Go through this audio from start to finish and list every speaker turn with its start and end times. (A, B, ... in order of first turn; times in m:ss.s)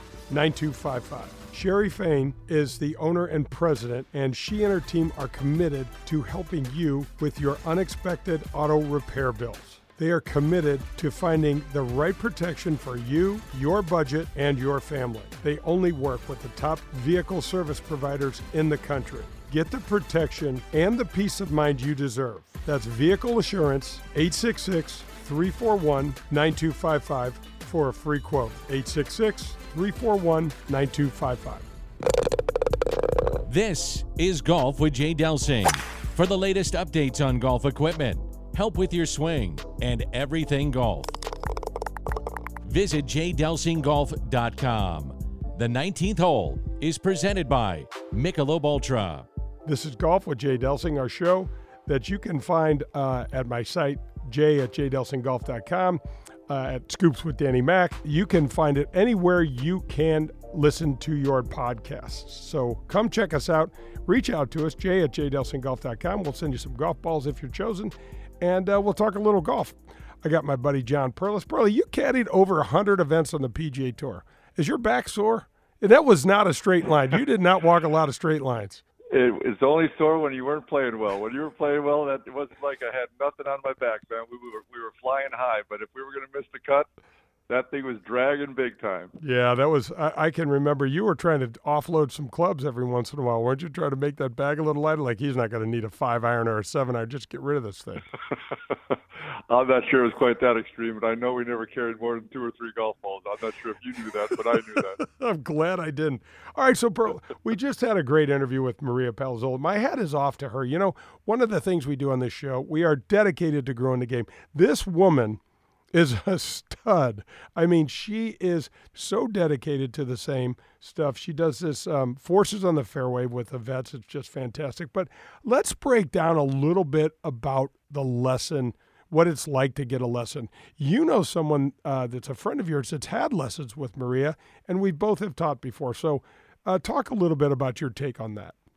0:00.3-0:31.7 A
0:33.4-0:41.1 B
0:42.6-0:49.3 B
0:49.6-1:18.8 A
1:19.1-1:26.9 C
1:27.5-1:29.1 C
1:29.2-1:38.1 A
1:39.5-1:45.0 C
1:45.0-1:55.4 A
1:55.9-2:18.5 A